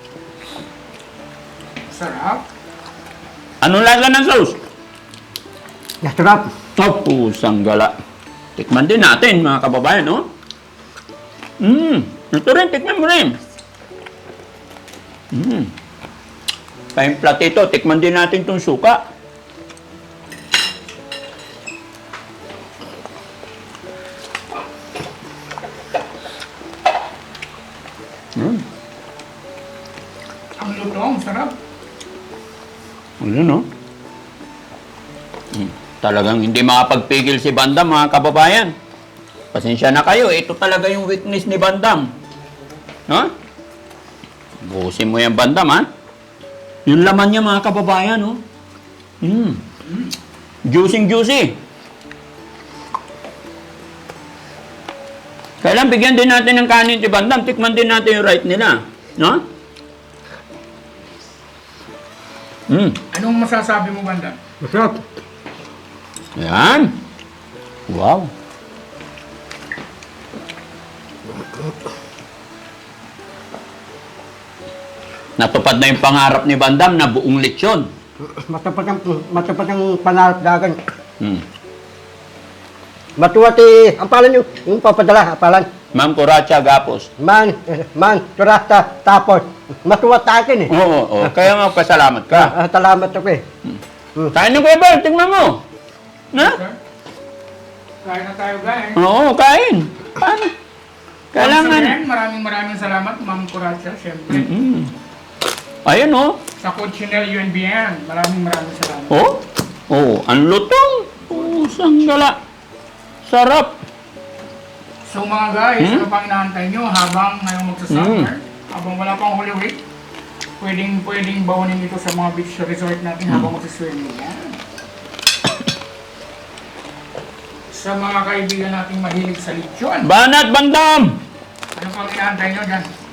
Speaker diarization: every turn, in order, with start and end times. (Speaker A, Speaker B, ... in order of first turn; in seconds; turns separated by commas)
Speaker A: 1.9-2.4, Speaker B: 3.6-4.6, Speaker C: 6.0-6.5, Speaker B: 6.8-7.9, Speaker B: 8.6-10.3, Speaker B: 11.6-13.4, Speaker B: 15.3-15.7, Speaker B: 16.9-19.0, Speaker B: 28.4-28.6, Speaker A: 30.6-31.5, Speaker B: 33.2-33.6, Speaker B: 35.5-38.7, Speaker B: 39.5-42.1, Speaker B: 44.6-45.9, Speaker B: 46.9-48.4, Speaker B: 49.2-49.6, Speaker B: 50.7-51.6, Speaker B: 55.6-59.4, Speaker B: 62.7-63.0, Speaker A: 63.1-64.4, Speaker C: 64.6-65.0, Speaker B: 66.4-66.9, Speaker B: 67.9-68.3, Speaker B: 75.4-77.9, Speaker C: 78.2-80.8, Speaker C: 83.2-85.7, Speaker B: 86.0-87.1, Speaker C: 87.2-90.7, Speaker B: 90.7-92.5, Speaker C: 92.3-93.4, Speaker B: 94.3-95.6, Speaker B: 96.3-96.6, Speaker A: 96.4-96.8, Speaker A: 98.0-99.0, Speaker B: 99.0-100.5, Speaker B: 101.3-102.0, Speaker A: 101.4-104.5, Speaker B: 104.3-104.9, Speaker B: 105.8-106.4, Speaker A: 106.6-109.1, Speaker B: 109.1-112.4, Speaker B: 113.2-113.8, Speaker A: 115.1-119.8, Speaker B: 115.8-116.1, Speaker B: 117.9-118.3, Speaker A: 120.6-124.5, Speaker A: 127.7-130.1, Speaker B: 130.0-131.2, Speaker A: 131.8-132.9